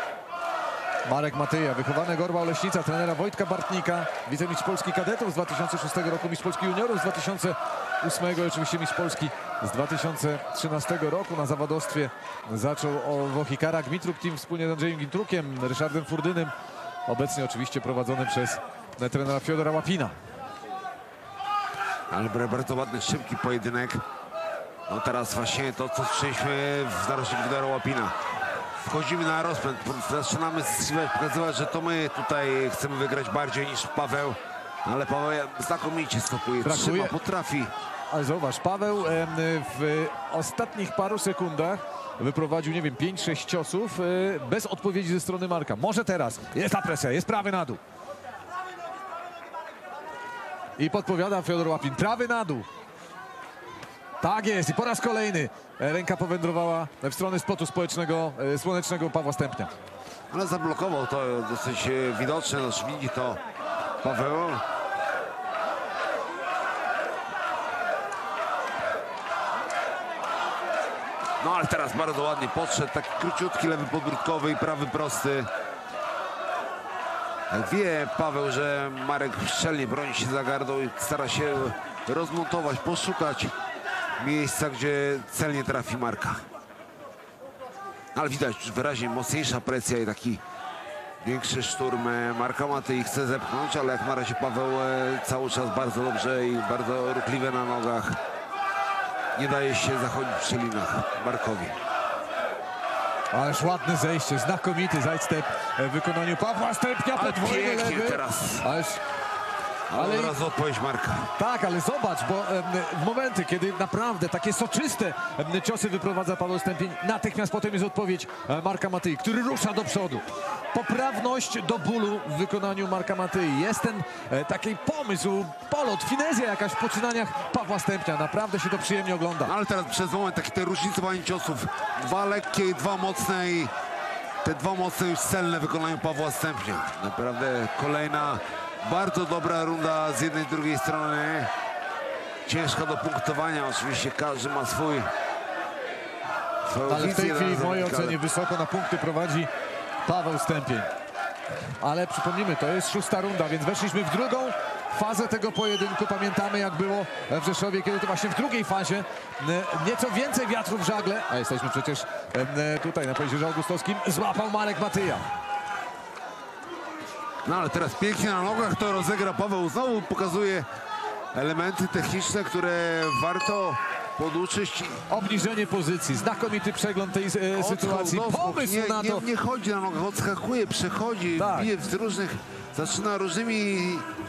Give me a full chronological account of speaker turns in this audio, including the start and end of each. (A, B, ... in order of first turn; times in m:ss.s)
0:01.1-0:16.5 A
0:17.1-0:20.1 A
0:22.1-0:24.0 B
0:24.9-0:28.2 B
0:28.8-0:37.7 B
0:36.6-0:37.2 A
0:38.1-0:47.8 A
0:50.8-0:52.7 A
0:54.2-0:59.7 A
1:00.3-1:03.4 B
1:04.0-1:04.6 B
1:11.4-1:15.5 B
1:17.5-1:23.5 B
1:24.2-1:26.4 B
1:28.2-1:30.4 B
1:31.2-1:38.2 B
1:39.4-1:41.8 B
1:43.3-1:49.0 A
1:47.2-1:48.7 B
1:49.9-1:51.3 B
1:50.0-1:50.4 A
1:51.4-2:09.5 A
2:09.4-2:13.7 B
2:14.4-2:21.5 B
2:22.5-2:25.1 B
2:26.7-2:28.2 B
2:26.9-2:29.5 A
2:30.1-2:30.9 A
2:31.8-2:45.3 A
2:47.4-2:50.7 B
2:51.3-2:55.0 B
2:55.1-2:59.2 A
2:57.6-3:04.1 B
3:01.4-3:01.7 A